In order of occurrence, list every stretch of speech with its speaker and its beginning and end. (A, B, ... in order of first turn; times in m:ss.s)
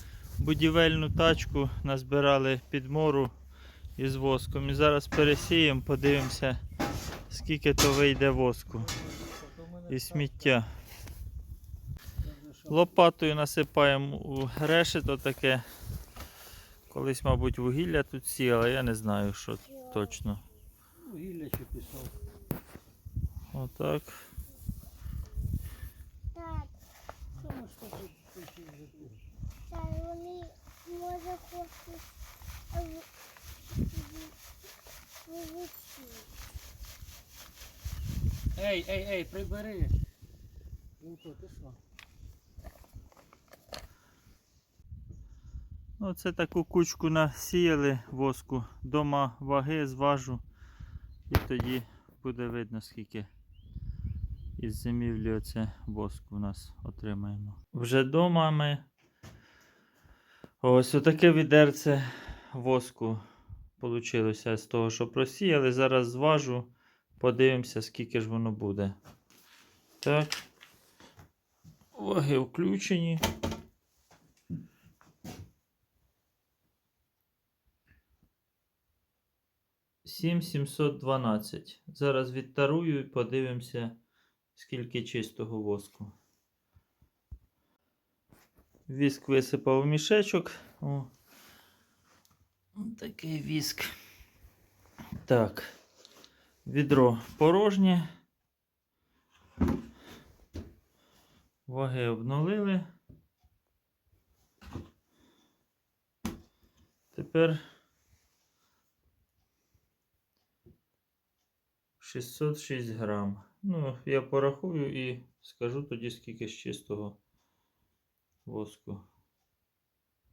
0:00.4-0:03.3 A
0:04.0-0:06.6 A
0:07.3-0:09.0 A
0:09.6-0:09.9 B
0:09.9-0:10.7 A
0:12.2-0:12.8 B
0:12.7-0:15.6 A
0:16.9-0:20.4 A
0:21.0-0:22.1 B
0:23.5-0:24.2 A
0:26.3-0:26.7 C
0:27.3-0:29.2 B
0:29.7-0:32.0 C
0:32.7-0:33.1 C
0:33.8-0:34.3 C
0:35.2-0:36.3 C
0:38.6-0:40.0 B
0:41.0-0:41.8 B
0:46.0-0:50.4 A
0:51.3-0:53.3 A
0:54.6-0:58.9 A
1:00.6-1:03.2 A
1:03.8-1:09.0 A
1:10.0-1:10.4 A
1:11.9-1:13.2 A
1:20.0-1:24.0 A
1:24.5-1:26.1 A
1:28.9-1:31.1 A
1:32.7-1:33.9 A
1:35.2-1:35.7 A
1:36.6-1:38.1 A
1:41.6-1:42.8 A
1:47.1-1:47.6 A
1:52.0-1:57.2 A
1:58.4-1:59.0 A